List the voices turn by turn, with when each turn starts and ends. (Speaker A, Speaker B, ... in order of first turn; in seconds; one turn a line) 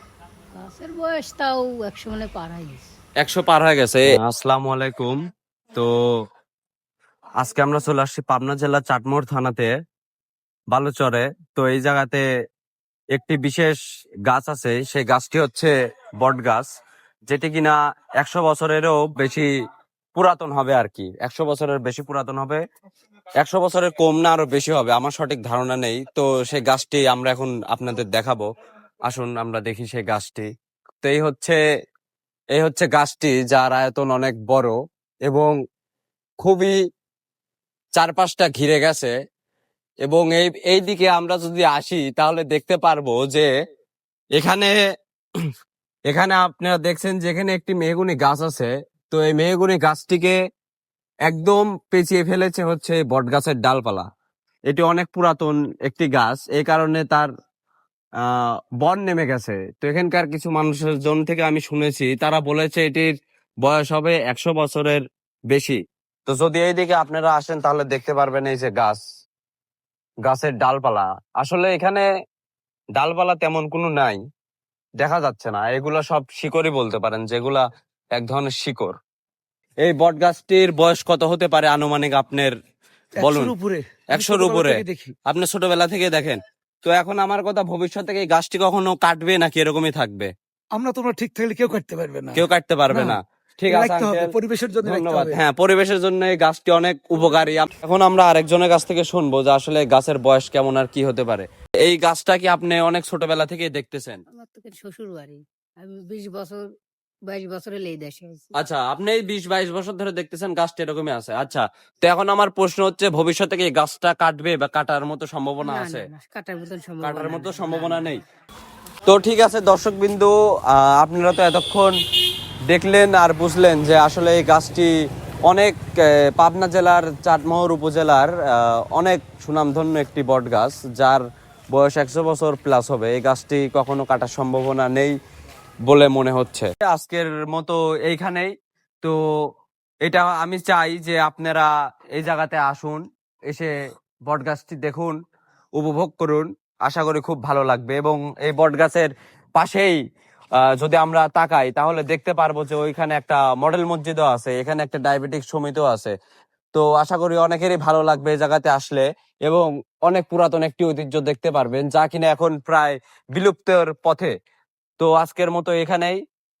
Speaker A: 0.6-2.9
Speaker B: 3.2-5.2
Speaker B: 7.4-9.7
Speaker B: 10.7-12.2
Speaker B: 13.1-16.7
Speaker B: 17.3-19.5
Speaker B: 20.1-22.6
Speaker B: 23.4-28.4
Speaker B: 29.1-30.5
Speaker B: 31.0-31.6
Speaker B: 32.5-35.5
Speaker B: 36.4-36.7
Speaker B: 38.0-39.1
Speaker B: 40.0-43.5
Speaker B: 44.4-44.7
Speaker B: 46.1-50.4
Speaker B: 51.3-54.1
Speaker B: 54.7-57.3
Speaker B: 58.8-63.1
Speaker B: 63.6-69.0
Speaker B: 70.2-72.0
Speaker B: 73.0-74.2
Speaker B: 75.0-79.0
Speaker B: 79.8-82.5
Speaker C: 83.2-85.1
Speaker B: 83.2-83.5
Speaker B: 84.1-90.3
Speaker C: 90.7-95.4
Speaker B: 92.3-94.3
Speaker B: 94.8-104.2
Speaker A: 104.3-106.6
Speaker A: 107.3-108.5
Speaker B: 108.5-116.1
Speaker A: 115.6-118.2
Speaker B: 117.0-118.2
Speaker B: 119.1-122.0
Speaker B: 122.7-124.9
Speaker B: 125.5-125.8
Speaker B: 126.3-131.2
Speaker B: 131.7-135.2
Speaker B: 135.9-139.2
Speaker B: 140.0-143.7
Speaker B: 144.3-145.2
Speaker B: 145.8-150.0
Speaker B: 150.6-156.1
Speaker B: 156.7-164.3
Speaker B: 165.0-166.2